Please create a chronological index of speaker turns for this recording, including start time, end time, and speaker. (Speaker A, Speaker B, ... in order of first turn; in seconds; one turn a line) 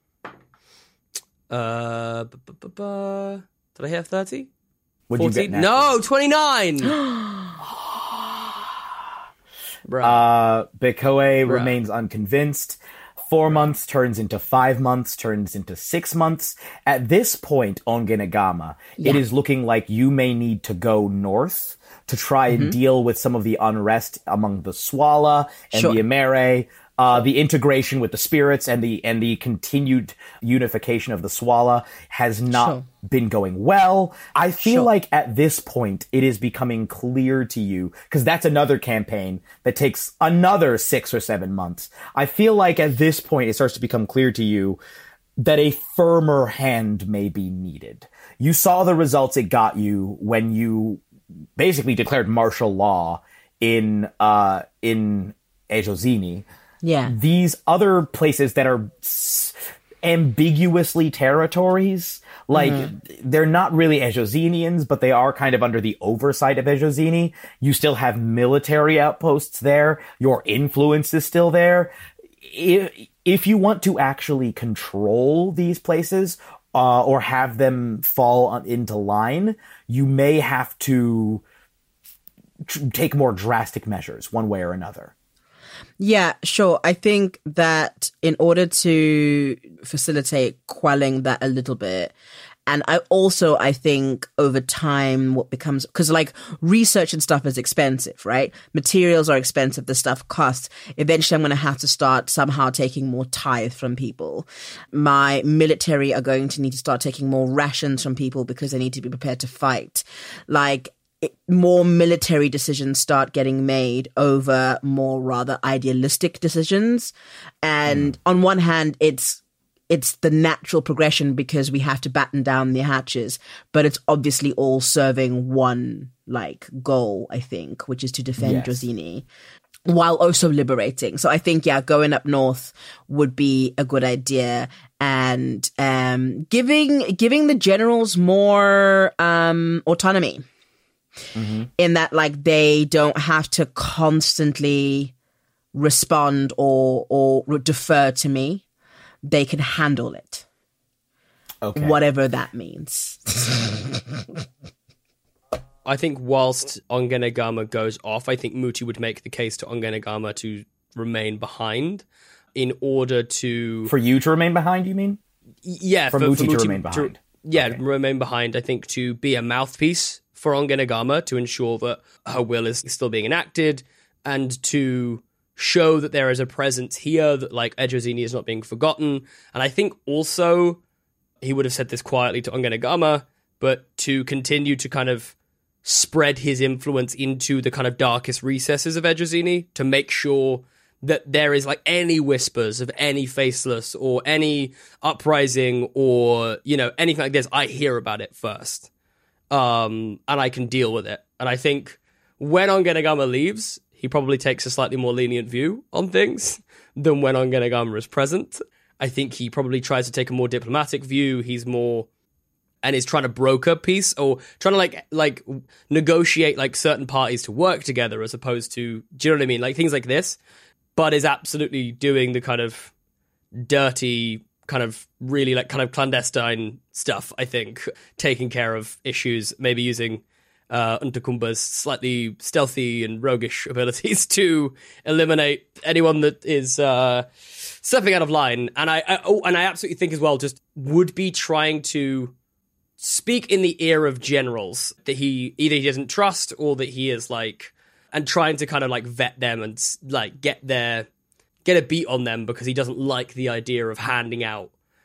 Speaker A: 1.5-4.5
Speaker B: 5.1-6.0
Speaker A: 5.2-7.0
Speaker A: 9.9-10.2
Speaker B: 10.0-44.8
Speaker A: 11.4-11.7
Speaker C: 22.5-22.8
Speaker C: 25.7-26.0
Speaker C: 32.5-32.9
Speaker B: 45.4-51.0
Speaker B: 51.6-56.5
Speaker C: 56.8-57.1
Speaker B: 57.0-81.4
Speaker C: 62.5-62.9
Speaker B: 82.6-85.1
Speaker C: 86.0-92.1
Speaker C: 92.7-117.1
Speaker C: 117.6-129.2
Speaker B: 117.8-118.1
Speaker B: 128.4-128.8
Speaker C: 129.8-140.4
Speaker B: 141.3-141.7
Speaker C: 141.8-145.1
Speaker C: 145.7-148.6
Speaker C: 149.2-150.4
Speaker B: 151.6-152.0
Speaker C: 151.8-154.0
Speaker A: 155.8-163.9
Speaker B: 163.8-165.2
Speaker A: 165.6-180.8
Speaker B: 166.1-167.8
Speaker A: 181.4-198.9
Speaker A: 199.5-212.1
Speaker A: 212.8-220.4
Speaker A: 220.9-222.9
Speaker A: 223.6-242.3
Speaker A: 243.0-251.1
Speaker A: 251.6-254.7